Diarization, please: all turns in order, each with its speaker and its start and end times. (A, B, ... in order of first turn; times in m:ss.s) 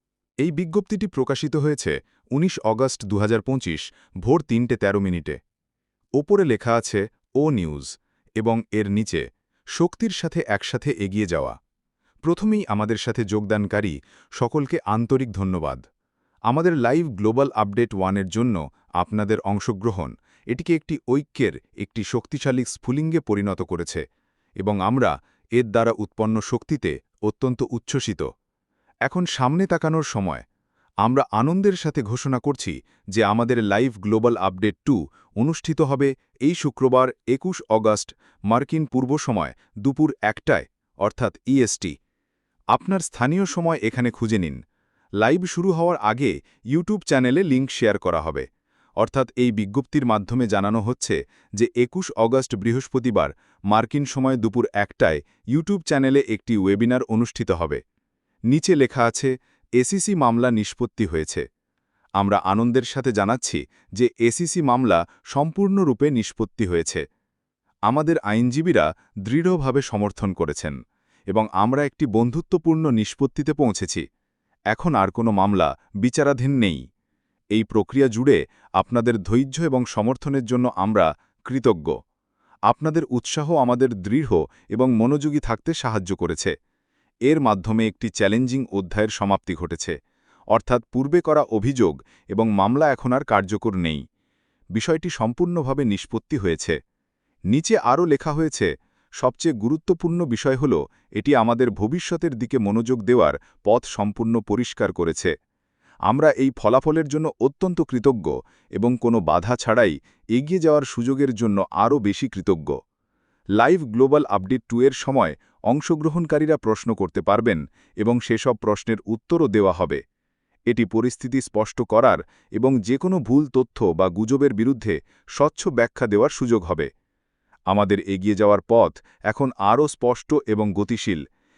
0:00.4-0:05.4 A
0:06.2-0:09.2 A
0:09.7-0:11.5 A
0:12.2-0:15.8 A
0:16.5-0:24.0 A
0:24.6-0:28.3 A
0:29.1-0:30.4 A
0:31.0-0:41.9 A
0:42.7-0:44.6 A
0:45.2-0:48.4 A
0:49.0-0:57.8 A
0:58.5-1:01.4 A
1:02.2-1:07.0 A
1:07.9-1:10.8 A
1:11.3-1:14.0 A
1:14.7-1:16.8 A
1:17.5-1:21.9 A
1:22.7-1:26.5 A
1:27.3-1:30.0 A
1:30.5-1:34.0 A
1:34.7-1:36.8 A
1:37.5-1:38.7 A
1:39.2-1:45.3 A
1:46.1-1:52.7 A
1:53.6-2:00.0 A
2:00.7-2:06.9 A
2:07.7-2:11.2 A